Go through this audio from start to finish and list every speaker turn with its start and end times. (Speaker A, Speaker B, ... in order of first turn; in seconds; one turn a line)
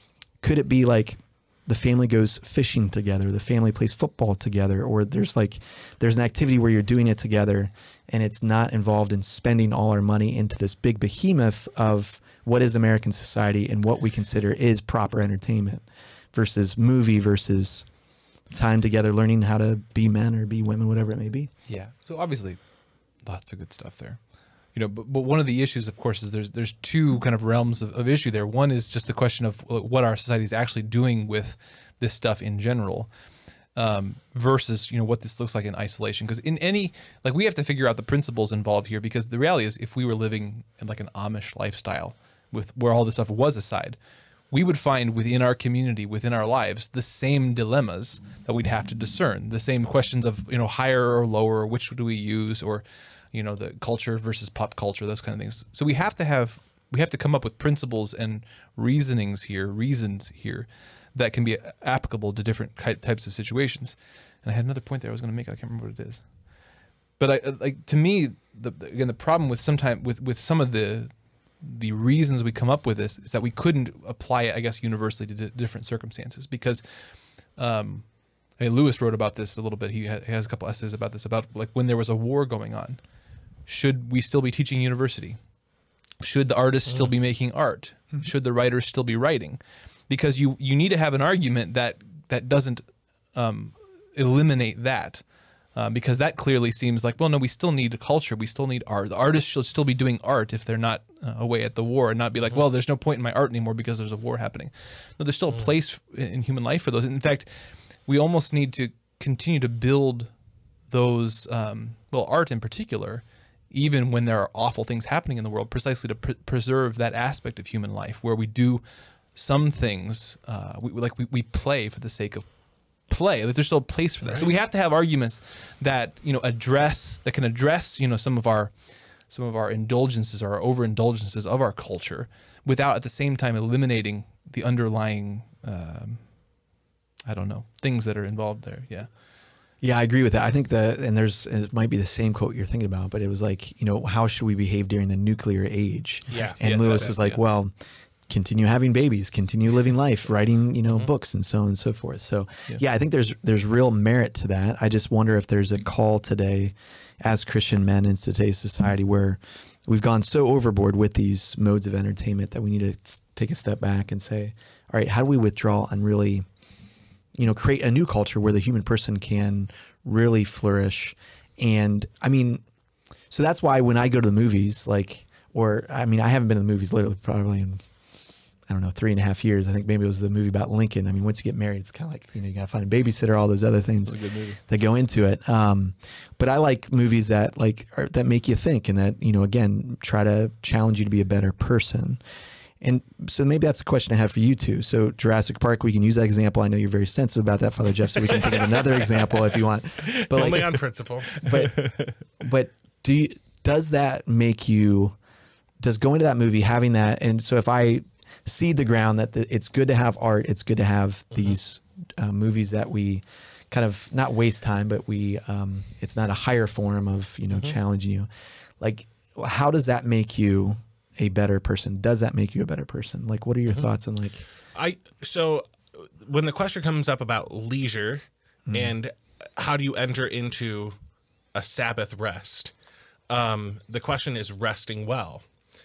Speaker A: 0.4-17.9
Speaker A: 18.5-21.5
Speaker B: 21.7-22.6
Speaker B: 23.2-24.2
Speaker B: 24.7-33.1
Speaker B: 33.8-44.0
Speaker B: 44.5-66.3
Speaker B: 67.2-76.8
Speaker B: 77.5-78.1
Speaker B: 78.6-83.0
Speaker B: 83.7-85.4
Speaker B: 86.2-92.8
Speaker B: 93.3-95.2
Speaker B: 95.8-107.5
Speaker B: 108.1-110.3
Speaker B: 110.9-118.8
Speaker B: 119.3-122.5
Speaker B: 123.1-128.8
Speaker C: 124.2-124.5
Speaker B: 129.3-136.3
Speaker B: 137.3-139.1
Speaker A: 139.8-147.7
Speaker C: 146.3-147.1
Speaker B: 146.4-147.4
Speaker A: 148.3-166.5
Speaker A: 167.4-172.6
Speaker A: 173.3-177.8
Speaker A: 178.7-192.2
Speaker B: 184.1-184.6
Speaker A: 192.8-200.8
Speaker C: 200.3-201.4
Speaker A: 201.4-205.2
Speaker B: 201.7-202.1
Speaker A: 205.8-218.3
Speaker A: 218.8-224.4
Speaker C: 224.8-230.9
Speaker A: 228.7-228.9
Speaker C: 231.6-232.7
Speaker C: 233.3-235.4